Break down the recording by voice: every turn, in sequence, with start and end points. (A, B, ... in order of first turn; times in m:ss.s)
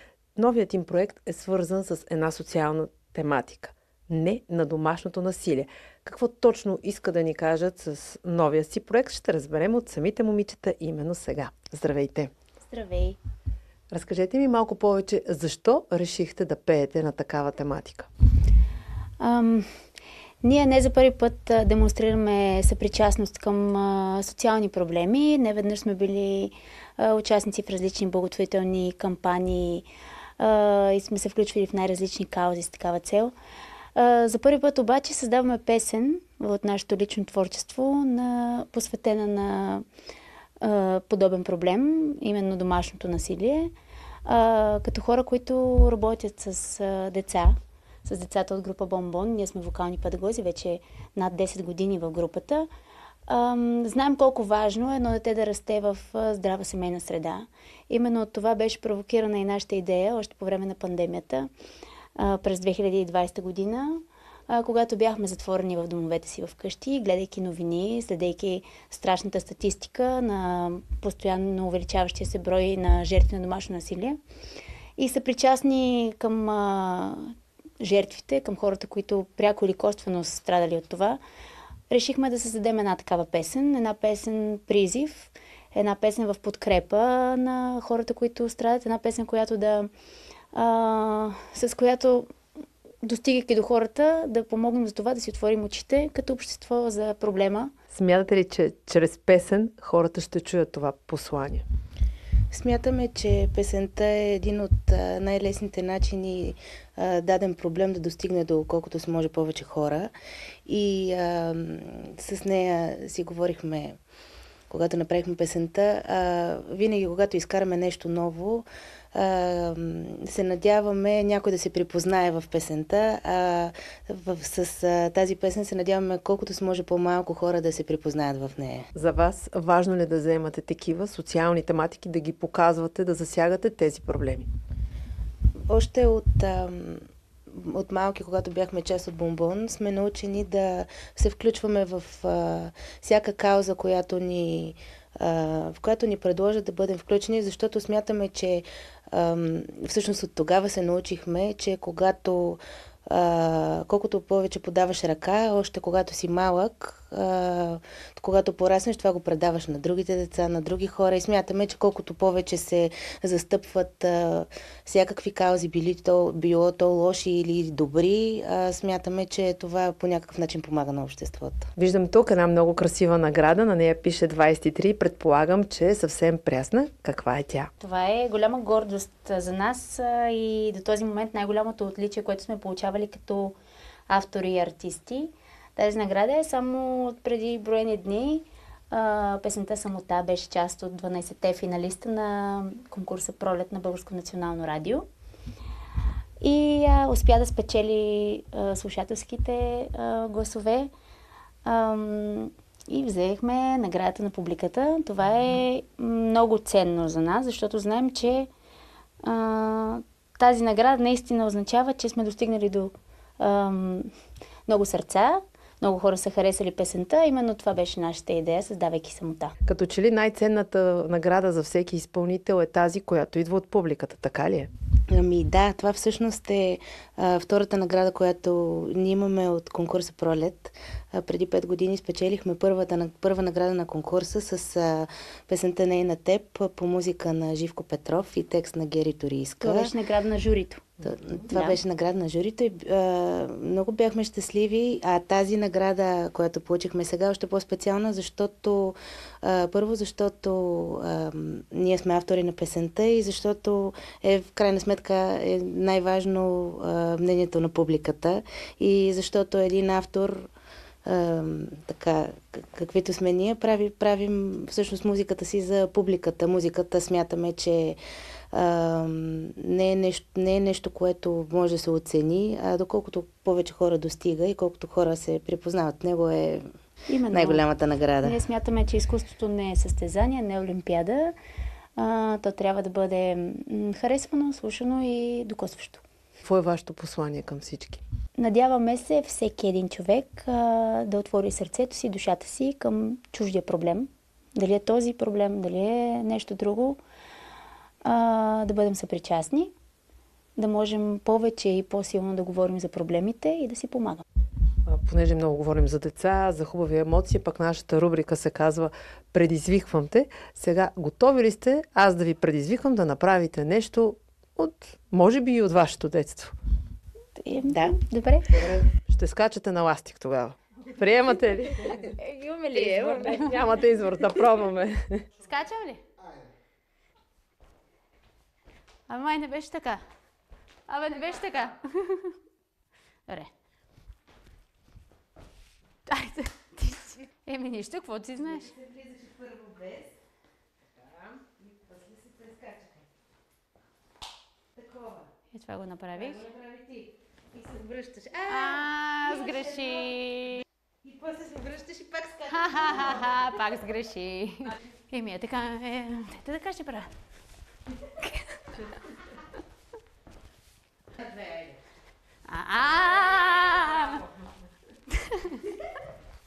0:00.4-0:12.3 A
0:12.6-0:13.2 B
0:13.9-0:18.1 A
0:19.2-0:19.7 B
0:20.4-0:29.9 B
0:30.4-0:33.3 B
0:34.0-0:39.9 B
0:40.6-0:43.7 B
0:44.2-0:52.7 B
0:53.3-1:01.5 B
1:02.2-1:14.2 B
1:15.0-1:21.2 B
1:21.9-1:29.9 B
1:30.5-1:32.3 B
1:33.0-1:37.7 B
1:37.9-1:41.6 A
1:42.5-1:50.1 C
1:50.7-1:54.0 C
1:54.7-2:08.9 C
2:09.0-2:14.5 A
2:15.7-2:51.7 C
2:51.8-2:57.7 A
2:57.8-3:03.6 B
3:04.1-3:15.0 B
3:16.4-3:20.9 B
3:21.6-3:28.5 B
3:29.2-3:34.1 B
3:34.7-3:39.6 B
3:39.7-3:44.7 A
3:45.1-3:59.9 C
3:59.6-4:00.8 B
4:01.0-4:20.5 C
4:01.5-4:01.8 B
4:21.0-4:28.0 C
4:28.5-4:36.7 C
4:37.1-4:37.6 B
4:37.3-4:38.4 C
4:38.2-4:41.4 B
4:42.0-4:46.0 B
4:46.4-4:48.0 A
4:48.4-4:57.0 B
4:58.0-4:59.7 B
5:00.6-5:04.2 B
5:04.9-5:16.6 A
5:17.4-5:18.7 B
5:18.5-5:18.8 C
5:19.1-5:22.1 A
5:22.0-5:23.8 B
5:22.7-5:25.3 A
5:25.4-5:26.0 B
5:29.1-5:30.0 B
5:30.9-5:32.4 B
5:36.1-5:38.8 B
5:42.1-5:42.5 C
5:45.5-5:46.5 B
5:47.6-5:48.4 C
5:48.4-5:50.6 B
5:51.1-5:52.4 C
5:52.4-5:57.1 B
5:58.1-5:58.9 B
6:02.5-6:04.3 B
6:05.3-6:05.6 B